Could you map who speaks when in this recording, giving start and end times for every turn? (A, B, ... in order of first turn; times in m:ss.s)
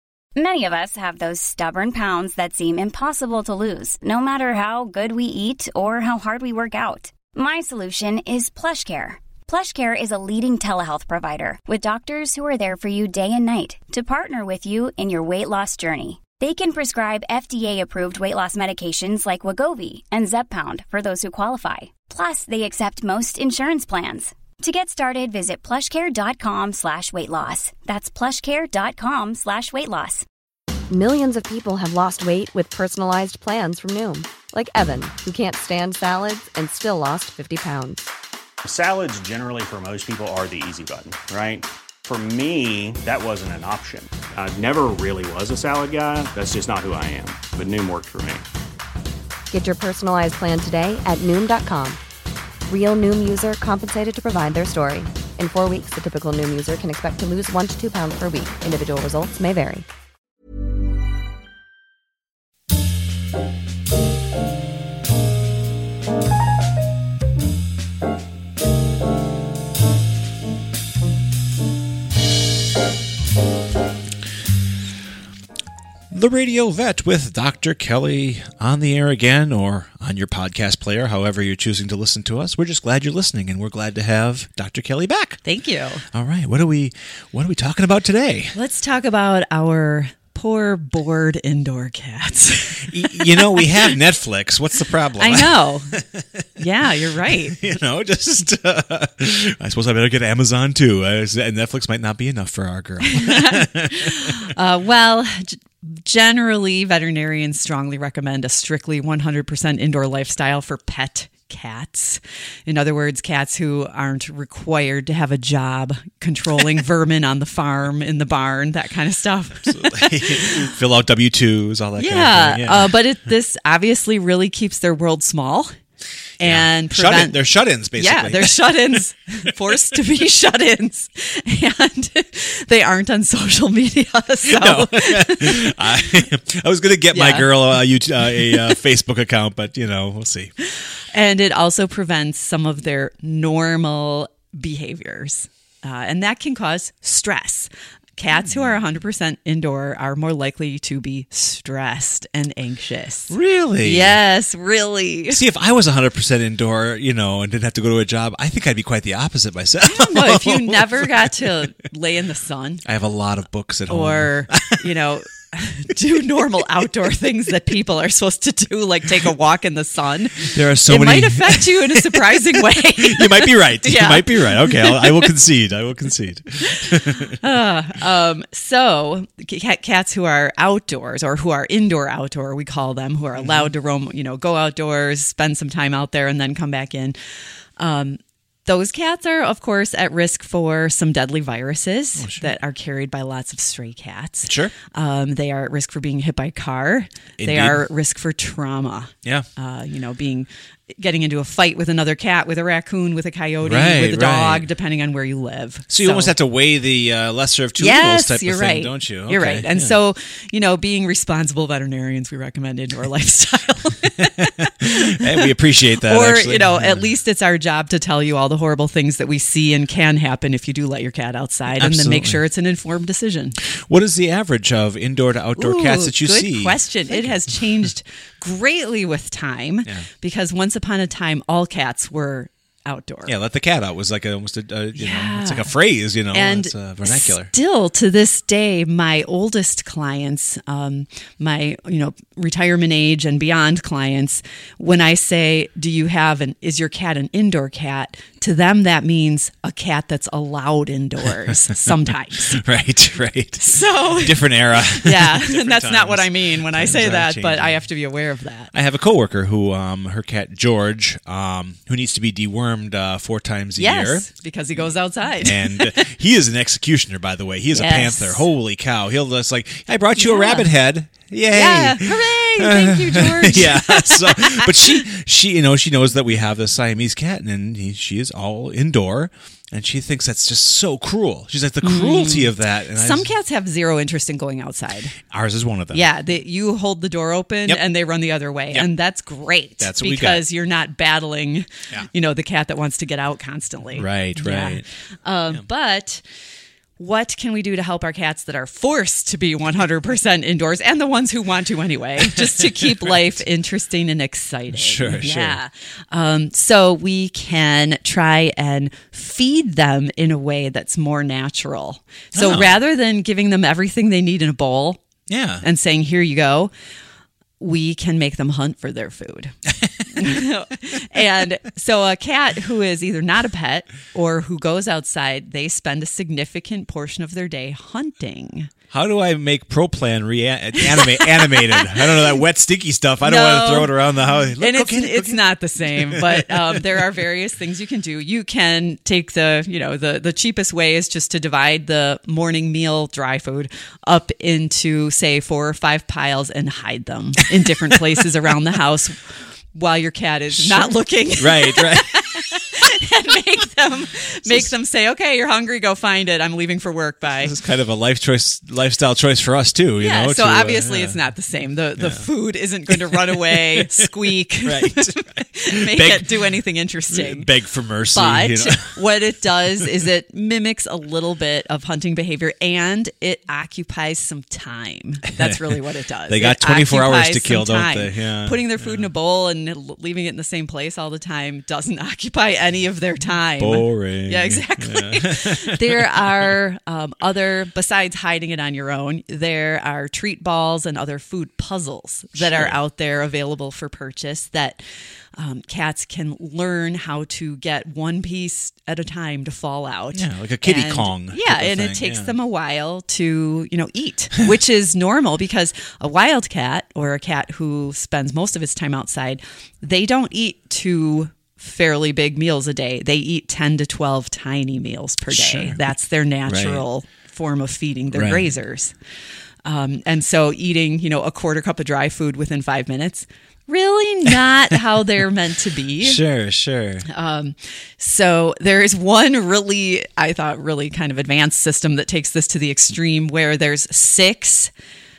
0:00.4-0:30.2 A
0:30.9-0:38.0 B
0:38.6-0:48.4 C
0:49.5-0:52.0 B
0:52.6-0:59.8 B
1:16.1-1:25.4 D
1:25.4-1:26.0 E
1:26.1-1:28.5 D
1:28.5-1:34.0 E
1:32.8-1:36.4 D
1:35.2-1:35.9 E
1:36.6-1:37.6 E
1:37.3-1:44.4 D
1:43.0-2:00.7 E
1:59.6-2:03.0 D
2:02.0-2:05.7 E
2:06.4-2:07.4 E
2:06.4-2:09.0 D
2:07.9-2:16.0 E
2:14.4-2:20.5 D
2:17.1-2:17.5 E
2:18.3-2:18.7 E
2:21.1-2:35.4 E
2:28.4-2:28.7 D
2:33.3-2:34.2 D
2:35.3-2:41.5 D
2:39.8-2:42.8 E
2:42.8-2:44.8 D
2:43.9-2:55.3 E
2:50.4-2:57.4 D
2:56.7-3:07.2 E
3:03.3-3:03.7 D
3:07.8-3:26.3 E
3:12.2-3:12.5 D
3:14.4-3:14.7 D
3:17.4-3:17.8 D
3:23.6-3:24.7 D
3:25.9-3:29.9 D
3:27.8-3:43.6 E
3:34.2-3:37.1 D
3:41.7-3:42.4 D
3:43.6-3:47.5 D
3:45.6-3:53.3 E
3:53.3-3:57.5 D
3:54.9-3:55.7 E
3:56.3-4:12.6 E
4:11.7-4:17.8 D
4:13.6-4:18.7 E
4:18.7-4:24.3 D
4:23.8-4:26.0 E
4:25.4-4:43.3 D
4:27.7-4:28.4 E
4:30.2-4:30.7 E
4:31.5-4:35.0 E
4:41.8-4:45.1 E
4:45.3-4:46.0 D
4:45.9-4:56.2 E
4:49.8-4:50.4 D
4:54.0-4:54.8 D
4:57.0-5:15.0 E
5:02.8-5:03.1 D
5:04.7-5:05.6 D
5:12.3-5:12.8 D
5:15.3-5:15.6 D
5:15.6-5:16.7 E
5:17.6-5:19.5 E
5:19.8-5:20.1 D
5:20.1-5:28.7 E
5:28.9-5:37.1 D
5:30.8-5:32.3 E
5:33.2-5:34.0 E
5:34.6-5:57.5 E
5:50.5-5:52.5 D
5:54.4-5:54.7 D
5:57.4-6:01.2 D
6:00.0-6:07.5 E
6:02.0-6:02.3 D
6:02.9-6:04.0 D
6:04.6-6:06.3 D
6:07.1-6:09.0 D
6:08.1-6:34.8 E
6:15.4-6:15.8 D
6:16.3-6:19.0 D
6:23.6-6:26.5 D
6:32.4-6:32.8 D
6:35.4-6:58.9 E
6:40.1-6:42.3 D
6:55.3-6:55.8 D
6:56.4-6:56.8 D
6:58.1-6:58.5 D
6:59.6-7:06.2 E
7:06.0-7:07.0 D
7:07.1-7:14.7 E